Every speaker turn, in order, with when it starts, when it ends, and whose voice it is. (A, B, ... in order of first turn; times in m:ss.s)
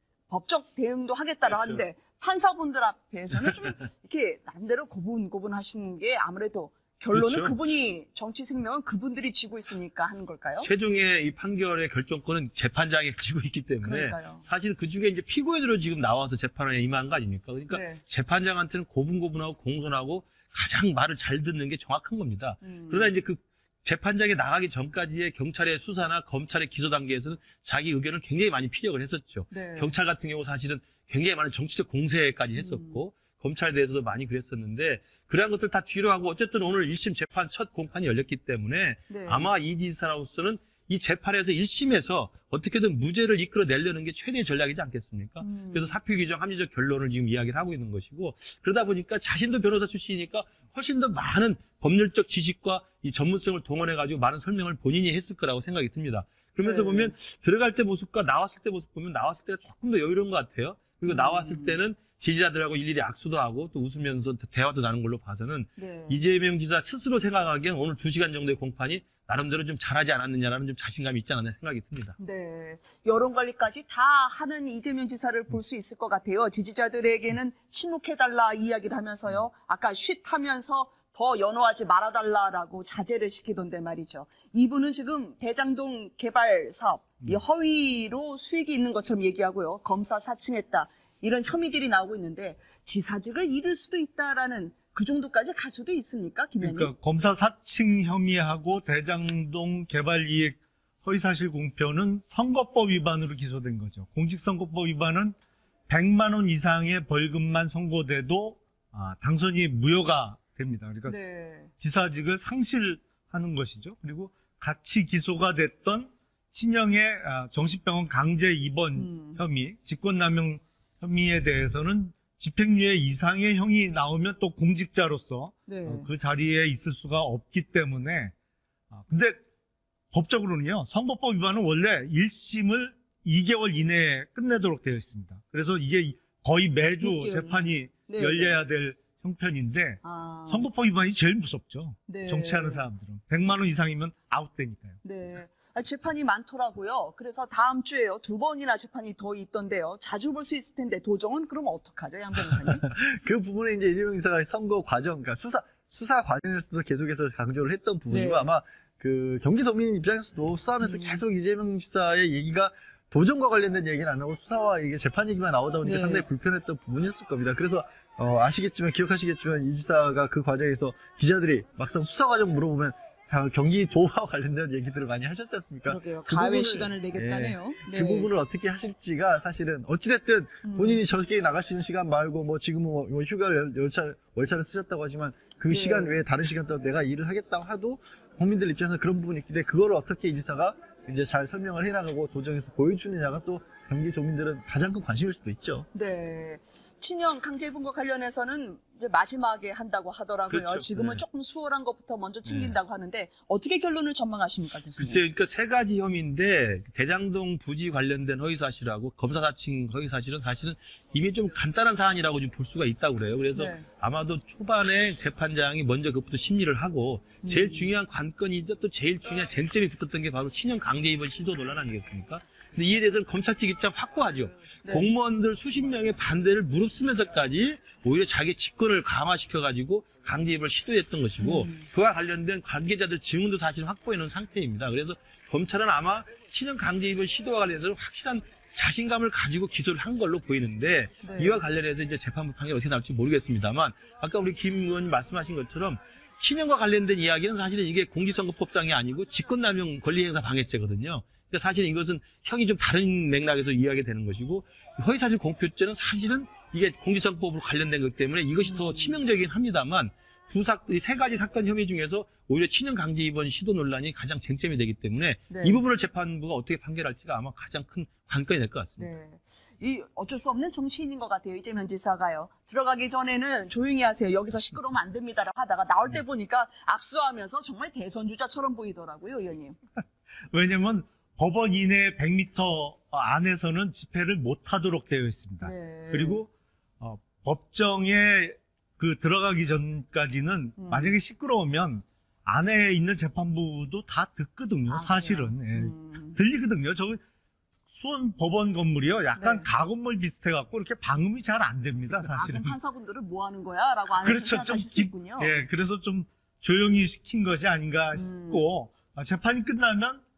0:00.3-0:10.7 A
0:01.5-0:01.8 B
0:07.1-0:07.6 B
0:10.6-1:12.2 B
0:13.8-0:14.4 A
0:17.7-0:18.0 A
0:22.6-0:23.1 A
0:29.5-0:30.0 A
0:32.6-0:33.0 A
0:39.1-0:39.5 A
0:45.4-0:46.0 A
0:56.6-0:57.1 A
1:01.1-1:01.8 A
1:05.8-1:06.2 A
1:12.2-1:36.9 A
1:36.6-1:45.4 C
1:45.9-1:51.2 C
1:51.0-1:51.7 A
1:51.8-2:08.3 C
1:59.0-1:59.4 A
2:05.7-2:06.1 A
2:08.9-2:09.4 C
2:10.1-2:25.0 C
2:17.0-2:18.6 A
2:20.0-2:20.7 A
2:22.1-2:22.8 A
2:25.0-2:32.8 A
2:32.7-3:15.9 D
2:38.1-2:38.5 A
2:40.8-2:41.2 A
2:45.8-2:46.3 A
2:55.9-2:58.3 A
3:00.6-3:01.0 A
3:05.7-3:06.2 A
3:15.9-3:25.2 A
3:20.5-3:21.2 B
3:22.4-3:22.8 B
3:25.0-4:29.1 B
3:33.6-3:33.9 A
3:37.4-3:37.9 A
3:44.8-3:45.1 A
3:51.4-3:51.9 A
4:01.2-4:01.6 A
4:18.6-4:19.2 A
4:25.5-4:25.8 A
4:29.0-4:39.8 A
4:40.5-4:46.5 C
4:45.6-4:46.4 A
4:47.0-4:57.2 C
4:50.8-4:51.2 A
4:54.9-4:56.4 A
4:57.9-5:02.8 C
4:59.4-4:59.7 A
5:02.2-5:05.7 A
5:04.2-5:10.2 C
5:08.1-5:08.7 A